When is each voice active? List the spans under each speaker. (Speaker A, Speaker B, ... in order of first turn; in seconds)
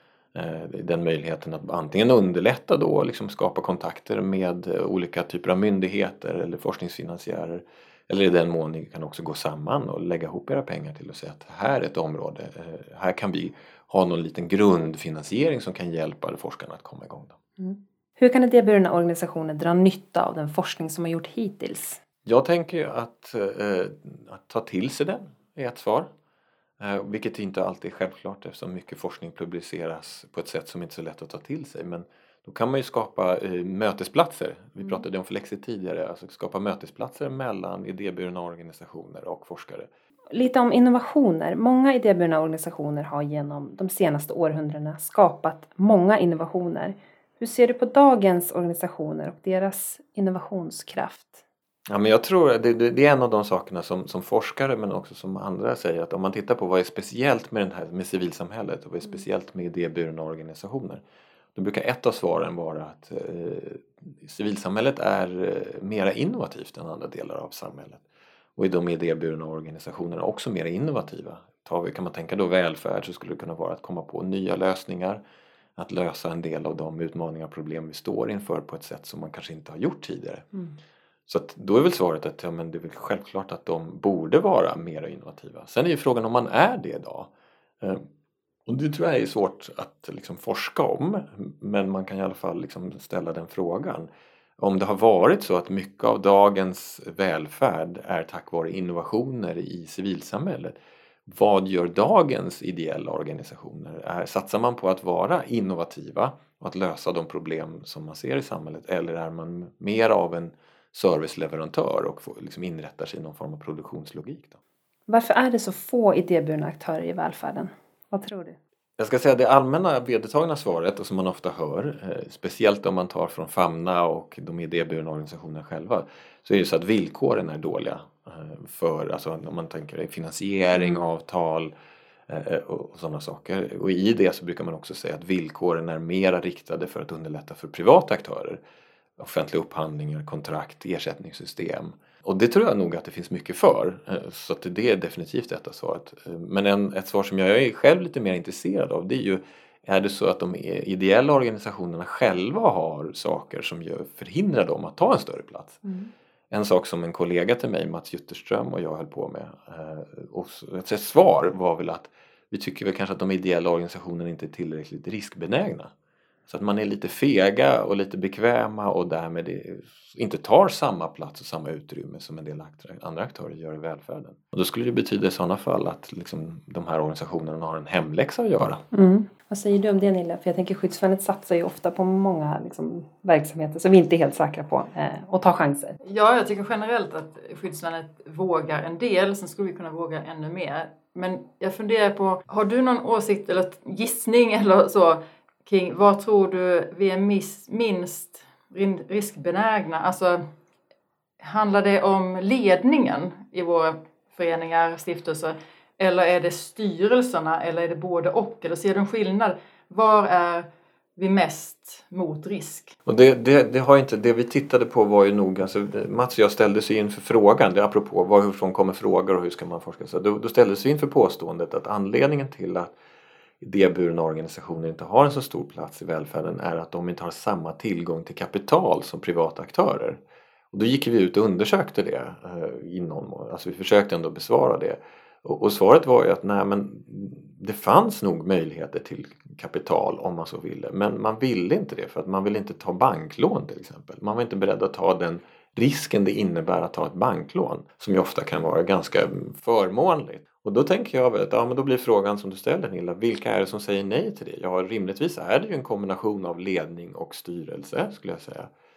Speaker A: 0.3-17.4, 22.2-26.1, 26.8-39.9, 51.9-61.0, 61.5-68.0, 68.5-75.2, 75.8-80.5, 81.3-88.0, 88.7-100.7, 101.3-114.6, 119.0-131.7, 132.3-138.6, 139.2-155.8, 156.5-165.9, 166.5-178.8, 213.1-222.9, 223.6-230.2, 230.7-258.7
Speaker B: 17.6-22.0, 40.3-51.4, 115.1-118.6, 155.8-156.1, 178.9-186.0
Speaker C: 186.0-200.5, 201.4-212.9